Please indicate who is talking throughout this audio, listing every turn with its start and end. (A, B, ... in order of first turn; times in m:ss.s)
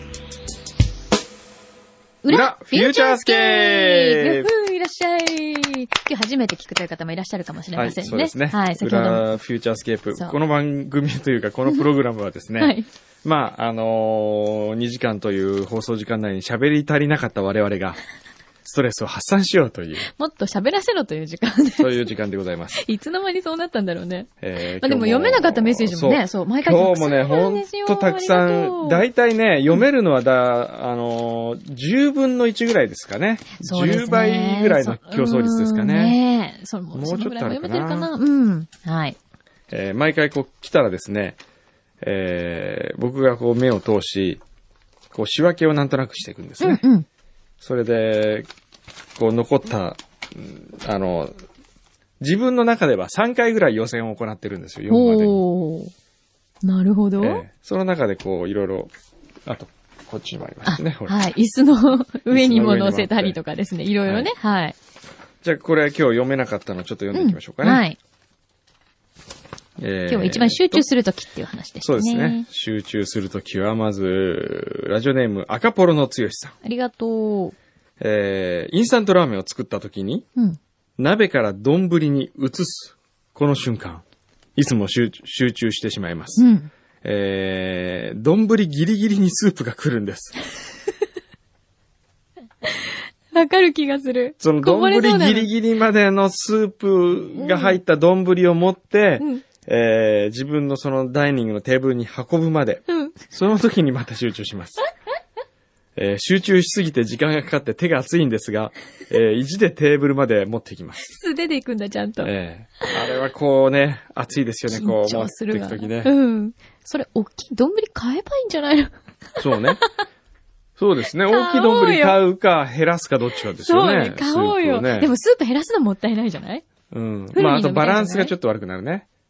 0:02.2-0:09.3 A
0:02.3-0:04.5 B
0:07.8-0:18.0 B
0:12.6-0:12.9 A
0:18.6-0:20.1 B
0:20.1-0:22.0 A
0:21.8-0:22.8 B
0:22.7-0:29.0 A
0:24.4-0:36.2 B
0:33.6-0:39.2 A
0:36.9-0:38.1 B
0:39.7-0:41.4 B
0:42.0-0:44.4 B
0:45.1-0:46.8 B
0:46.6-0:47.1 A
0:47.6-0:48.5 B
0:49.2-0:51.4 B
0:52.2-0:55.4 B
0:54.9-0:55.9 A
0:56.6-0:57.4 A
0:57.2-0:58.9 B
0:59.5-1:01.2 B
1:00.6-1:04.8 A
1:02.3-1:03.4 B
1:04.1-1:04.3 B
1:05.4-1:07.8 B
1:07.1-1:08.0 A
1:09.8-1:10.8 B
1:10.1-1:12.4 A
1:11.8-1:16.6 B
1:16.6-1:17.6 A
1:18.0-1:20.3 B
1:21.0-1:24.0 B
1:24.6-1:26.4 B
1:26.4-1:26.7 A
1:27.0-1:30.4 B
1:33.3-1:35.5 A
1:34.4-1:44.8 B
1:37.4-1:37.8 A
1:42.9-1:43.2 A
1:46.0-1:51.1 B
1:51.0-1:52.3 A
1:52.2-1:56.1 B
1:54.7-1:59.8 A
1:59.4-1:59.8 B
2:00.8-2:05.1 B
2:01.3-2:02.2 A
2:03.4-2:06.6 A
2:06.9-2:09.1 B
2:07.3-2:08.4 A